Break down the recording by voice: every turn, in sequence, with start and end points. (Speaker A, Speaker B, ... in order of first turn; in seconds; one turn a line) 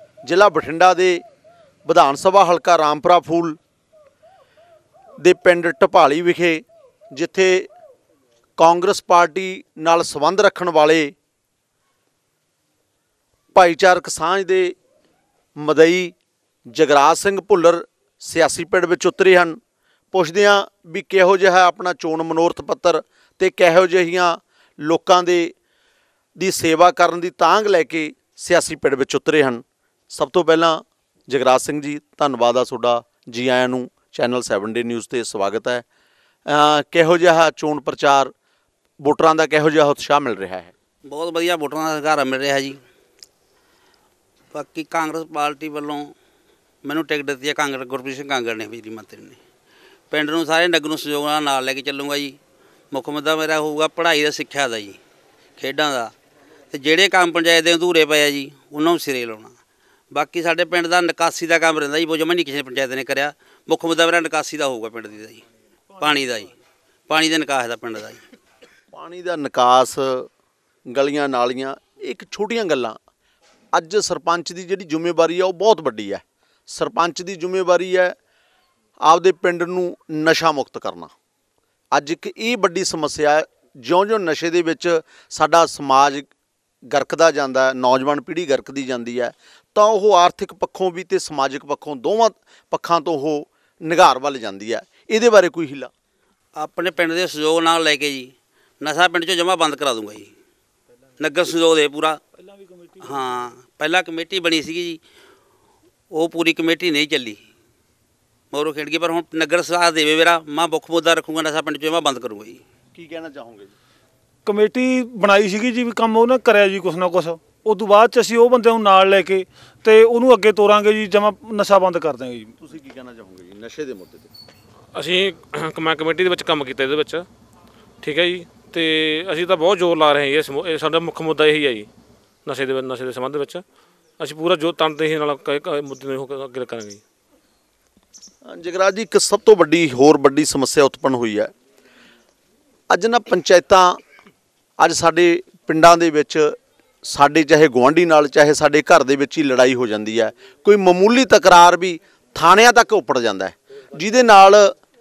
Speaker A: 0.2-1.2
Speaker A: 1.9-3.6
Speaker A: 5.2-7.7
Speaker A: 8.6-11.1
Speaker A: 13.5-14.7
Speaker A: 15.6-16.1
Speaker A: 16.7-19.6
Speaker A: 20.1-25.5
Speaker A: 26.4-35.8
Speaker A: 36.5-38.3
Speaker A: 39.0-40.7
Speaker B: 41.0-42.8
Speaker B: 44.5-46.1
Speaker B: 46.8-49.4
Speaker B: 50.1-52.4
Speaker B: 52.9-55.0
Speaker B: 55.6-56.1
Speaker B: 56.7-59.5
Speaker B: 60.1-65.4
Speaker B: 66.0-66.5
Speaker B: 67.1-68.2
Speaker A: 68.9-70.3
Speaker A: 70.9-73.0
Speaker A: 73.7-78.2
Speaker A: 79.0-81.1
Speaker A: 81.9-86.3
Speaker A: 86.9-95.9
Speaker B: 96.6-98.3
Speaker B: 98.8-100.3
Speaker B: 101.2-102.2
Speaker C: 102.4-102.9
Speaker B: 103.0-105.0
Speaker B: 106.1-107.4
Speaker B: 108.5-112.6
Speaker A: 112.9-113.7
Speaker C: 114.4-122.5
Speaker A: 122.6-124.3
Speaker D: 124.9-127.2
Speaker D: 128.0-131.9
Speaker D: 132.4-133.6
Speaker D: 134.2-137.0
Speaker A: 138.4-141.5
Speaker A: 142.9-144.0
Speaker A: 144.8-154.7